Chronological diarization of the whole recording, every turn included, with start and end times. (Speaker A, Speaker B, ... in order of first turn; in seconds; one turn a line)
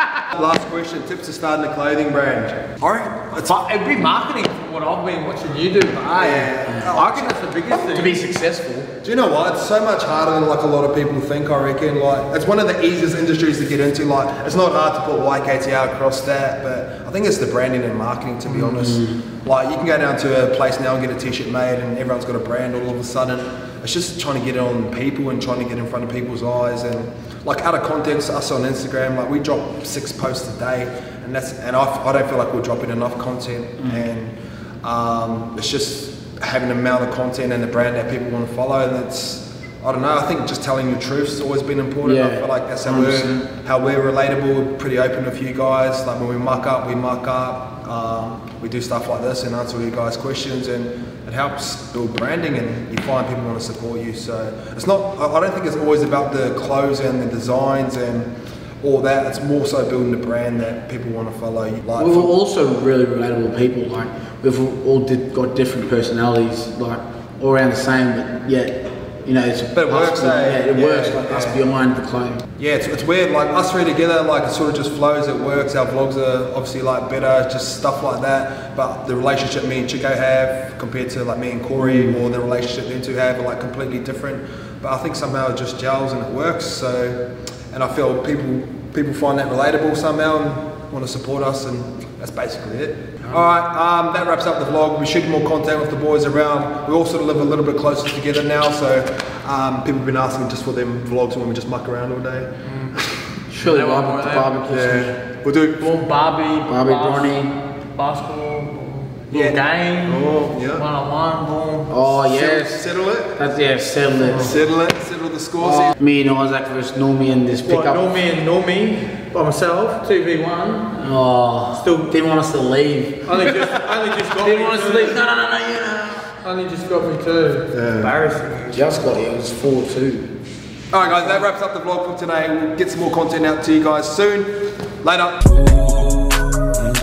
Speaker A: 0.3-3.5
Speaker B: 3.5-8.2
Speaker A: 6.1-7.3
Speaker C: 6.7-8.9
Speaker A: 9.0-58.3
Speaker C: 18.5-19.2
Speaker C: 42.0-43.4
Speaker A: 58.8-62.3
Speaker C: 62.0-72.4
Speaker A: 69.7-71.6
Speaker A: 72.6-103.4
Speaker B: 102.7-102.9
Speaker C: 103.5-105.2
Speaker B: 103.6-104.6
Speaker A: 104.7-105.8
Speaker B: 105.8-112.1
Speaker C: 106.7-107.6
Speaker A: 109.3-110.9
Speaker C: 111.9-114.7
Speaker A: 112.2-113.4
Speaker A: 114.3-116.0
Speaker C: 115.6-118.1
Speaker B: 117.7-121.0
Speaker C: 121.0-123.6
Speaker B: 121.8-122.1
Speaker B: 123.3-125.2
Speaker C: 124.4-126.3
Speaker B: 126.4-129.0
Speaker A: 127.7-128.1
Speaker C: 128.7-130.3
Speaker A: 130.9-135.4